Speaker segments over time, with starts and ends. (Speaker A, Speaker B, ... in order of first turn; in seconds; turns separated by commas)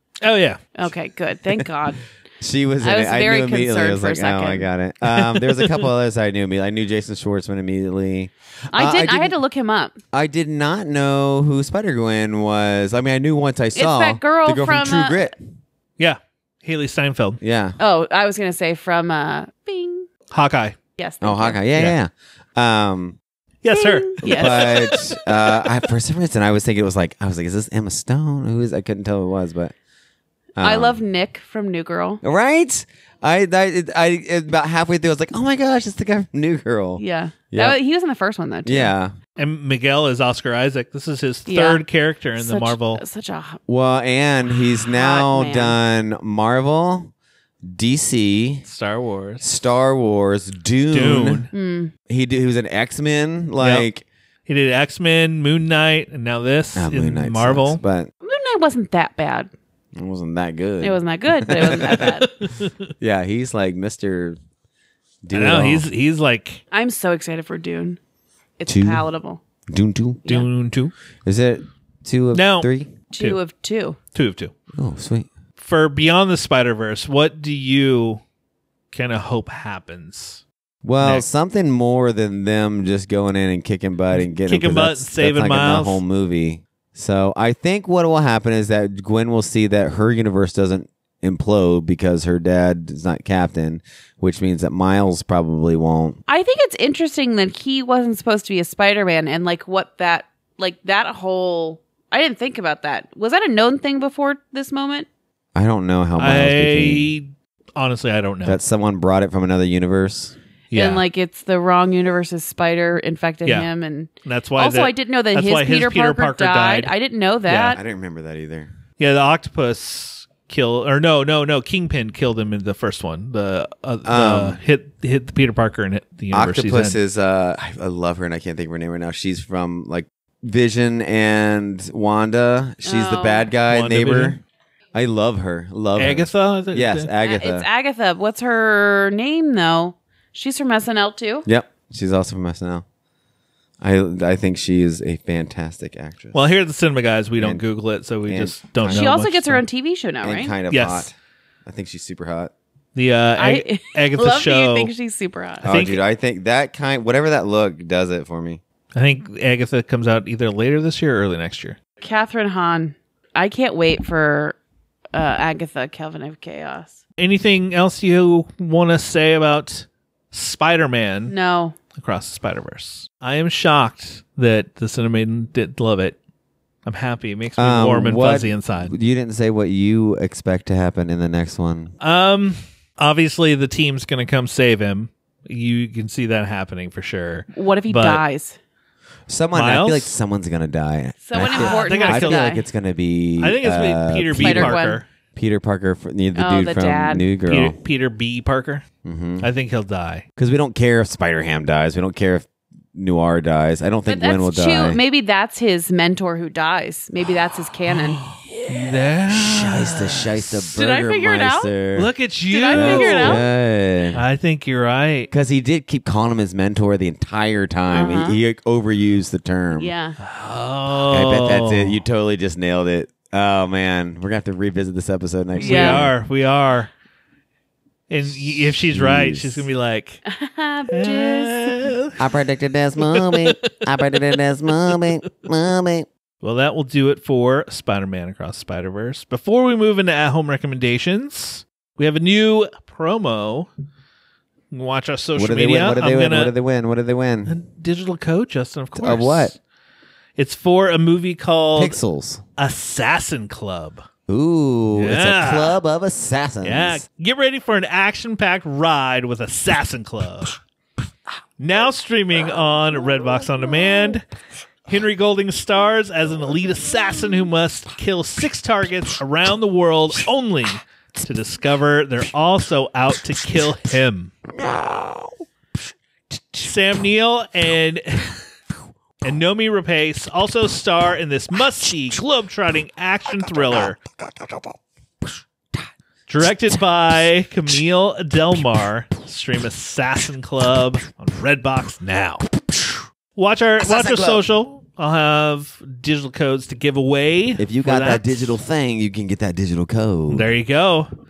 Speaker A: 0.2-0.7, Speaker B: 0.8-2.0, Speaker C: 2.4-9.4, Speaker B: 2.8-4.7, Speaker A: 5.0-5.9, Speaker B: 8.7-10.0, Speaker C: 10.1-15.4, Speaker B: 13.8-15.3, Speaker A: 16.0-17.4, Speaker C: 17.4-17.8, Speaker B: 17.8-20.1, Speaker A: 20.3-20.8, Speaker B: 21.0-21.6, Speaker C: 21.2-23.2, Speaker A: 23.6-25.1, Speaker B: 23.7-24.8, Speaker C: 24.2-29.7, Speaker C: 30.6-31.0, Speaker B: 30.6-32.2, Speaker C: 32.2-37.8, Speaker B: 37.0-38.9, Speaker C: 38.7-39.1, Speaker A: 39.4-43.0, Speaker B: 41.5-41.8, Speaker B: 42.4-43.6, Speaker C: 43.7-47.1, Speaker B: 44.9-45.8, Speaker C: 47.6-48.6, Speaker A: 48.6-49.5, Speaker C: 49.4-51.5, Speaker A: 50.9-51.5, Speaker B: 51.5-51.9, Speaker C: 52.1-54.0, Speaker A: 53.6-53.9, Speaker A: 54.5-57.8, Speaker C: 56.8-58.1, Speaker B: 58.2-59.5, Speaker C: 60.0-62.2, Speaker B: 60.8-62.3, Speaker A: 61.8-62.7, Speaker C: 63.0-64.4, Speaker C: 65.2-65.9, Speaker A: 65.3-66.6, Speaker B: 66.7-68.0, Speaker B: 68.6-69.4, Speaker C: 68.7-69.0, Speaker C: 69.7-70.3, Speaker A: 70.3-70.9, Speaker C: 71.2-72.9, Speaker A: 72.3-73.4, Speaker B: 73.1-74.0, Speaker A: 74.1-74.5, Speaker C: 74.7-75.3, Speaker A: 75.6-78.2, Speaker A: 78.9-80.4, Speaker C: 80.8-96.2, Speaker A: 81.0-81.3, Speaker A: 84.2-86.0, Speaker B: 96.3-105.1, Speaker C: 105.5-107.1, Speaker A: 106.2-108.6, Speaker C: 108.5-110.4, Speaker A: 110.7-111.0, Speaker B: 110.7-117.8, Speaker A: 114.2-116.9, Speaker A: 117.5-117.8, Speaker C: 117.7-118.7, Speaker A: 119.0-127.0, Speaker C: 124.0-124.6, Speaker C: 126.3-134.4, Speaker B: 132.8-133.5, Speaker A: 133.7-134.4, Speaker C: 134.9-137.7, Speaker A: 136.0-137.1, Speaker B: 137.2-141.5, Speaker C: 141.4-142.8, Speaker C: 143.8-146.5, Speaker A: 146.3-149.6, Speaker C: 147.4-147.6, Speaker C: 148.3-149.1, Speaker B: 148.9-150.6, Speaker C: 150.2-151.1, Speaker A: 150.7-151.1, Speaker C: 151.7-152.5, Speaker A: 153.0-154.9, Speaker B: 153.4-155.7, Speaker C: 155.6-158.6, Speaker A: 155.7-156.0, Speaker A: 158.9-161.8, Speaker B: 162.0-164.6, Speaker B: 165.1-167.0, Speaker A: 167.2-171.3, Speaker B: 171.3-171.8, Speaker A: 171.9-176.2, Speaker A: 176.9-178.9, Speaker C: 177.6-181.9, Speaker A: 182.0-188.2, Speaker B: 187.5-188.6, Speaker C: 189.3-194.8, Speaker A: 189.5-190.1, Speaker B: 191.2-192.6, Speaker A: 191.5-192.5, Speaker A: 193.4-195.1, Speaker B: 194.4-195.0, Speaker C: 195.3-197.8, Speaker B: 196.4-197.3, Speaker A: 197.5-198.8, Speaker C: 199.0-199.5, Speaker A: 199.4-200.2, Speaker C: 200.4-205.0, Speaker B: 204.1-208.2, Speaker C: 208.5-212.1, Speaker A: 208.7-210.6, Speaker B: 210.7-211.8, Speaker A: 211.9-213.5, Speaker B: 212.5-213.4, Speaker C: 212.7-214.2, Speaker A: 214.1-215.3, Speaker C: 215.3-219.9, Speaker B: 217.9-218.4, Speaker B: 219.8-220.2, Speaker A: 220.2-222.0, Speaker C: 221.1-226.1, Speaker A: 225.6-226.9, Speaker B: 225.6-226.1, Speaker A: 228.1-230.2, Speaker C: 228.5-229.7, Speaker B: 230.3-231.9, Speaker A: 230.9-232.2, Speaker C: 232.2-236.1, Speaker A: 233.0-234.3, Speaker A: 236.4-243.7, Speaker A: 244.7-246.5, Speaker C: 245.4-247.6, Speaker A: 247.5-249.6, Speaker C: 248.9-249.6, Speaker A: 250.4-252.0, Speaker C: 251.8-252.4, Speaker A: 252.6-254.1, Speaker C: 254.3-257.0, Speaker A: 255.0-255.8, Speaker A: 256.6-260.6, Speaker A: 261.6-264.2, Speaker A: 264.9-274.3, Speaker C: 274.6-275.3, Speaker A: 276.6-278.4, Speaker A: 279.2-284.0, Speaker A: 286.3-292.5, Speaker A: 293.4-298.6, Speaker C: 293.8-294.4, Speaker C: 297.6-300.5, Speaker A: 300.3-301.1